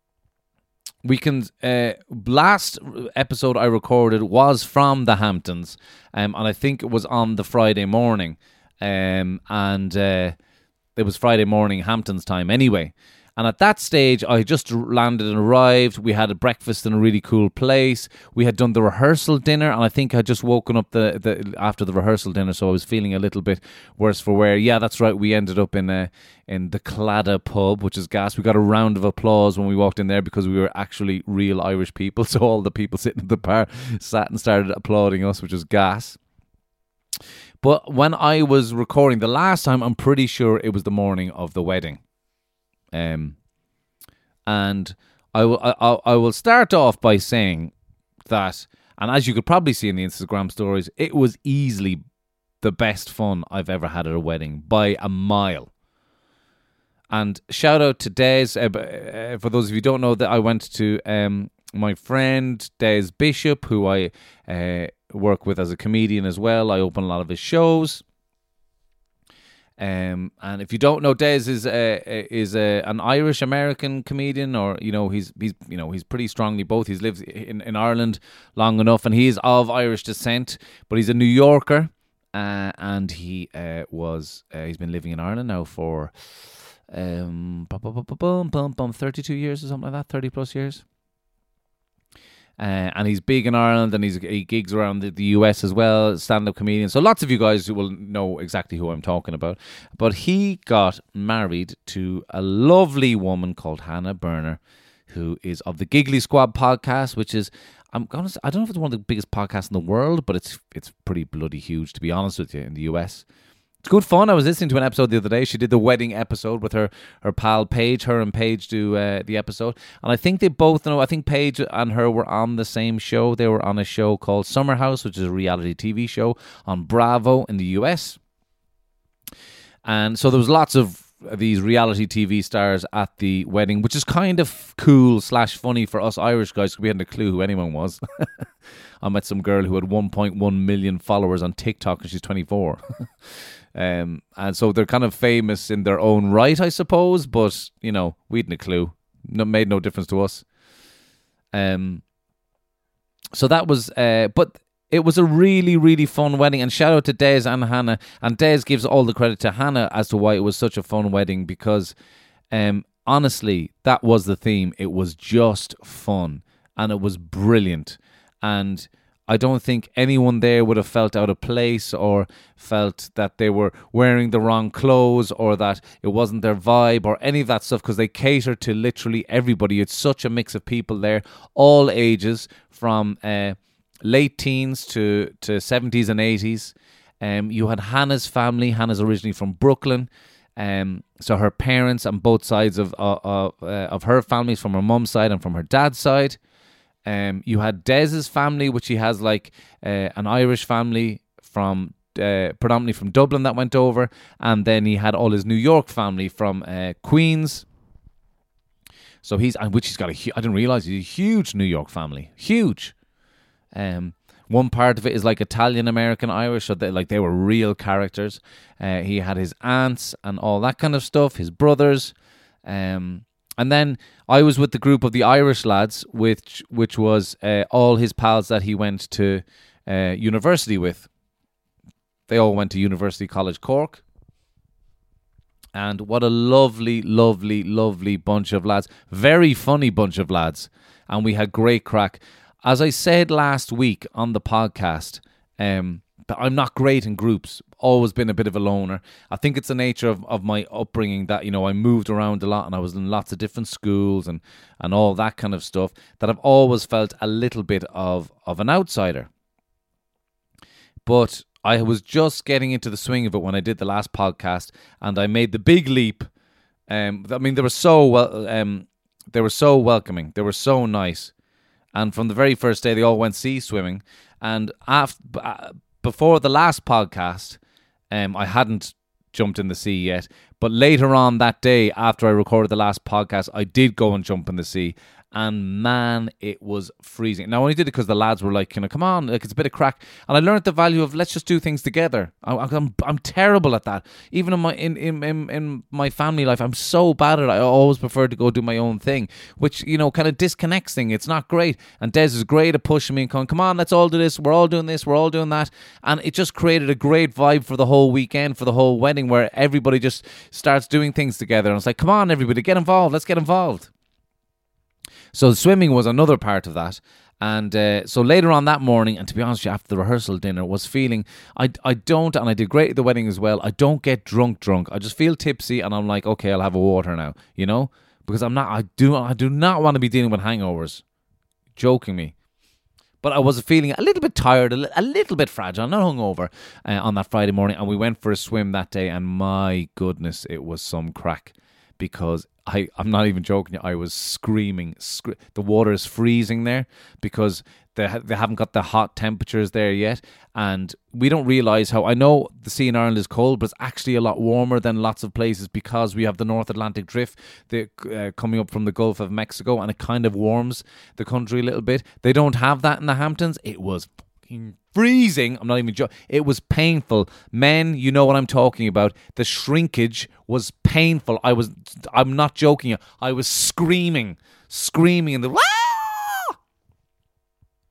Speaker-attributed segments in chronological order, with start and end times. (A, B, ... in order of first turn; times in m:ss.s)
0:01.0-0:10.4 A
0:11.0-0:36.2 A
0:37.6-0:42.0 A
0:42.9-0:43.4 A
0:44.5-0:47.7 A
0:48.3-0:52.0 A
0:52.6-0:55.7 A
0:57.1-1:08.0 A
1:09.8-1:26.1 A
1:26.9-1:30.8 A
1:32.6-1:53.2 A
1:53.8-2:08.2 A
2:09.8-2:18.3 A
2:19.0-2:22.8 A
2:23.8-2:30.4 A
2:31.5-2:32.0 A
2:33.3-2:42.0 A
2:42.5-3:16.4 A
3:17.1-3:27.6 A
3:29.2-3:32.9 A
3:33.7-3:42.1 A
3:42.6-3:51.1 A
3:52.3-3:54.0 A
3:55.8-4:19.3 A
4:21.1-4:26.3 A
4:26.9-4:31.3 A
4:31.9-4:37.6 A
4:38.1-5:13.9 A
5:15.3-5:31.0 A
5:31.8-5:32.3 A
5:33.2-6:16.6 A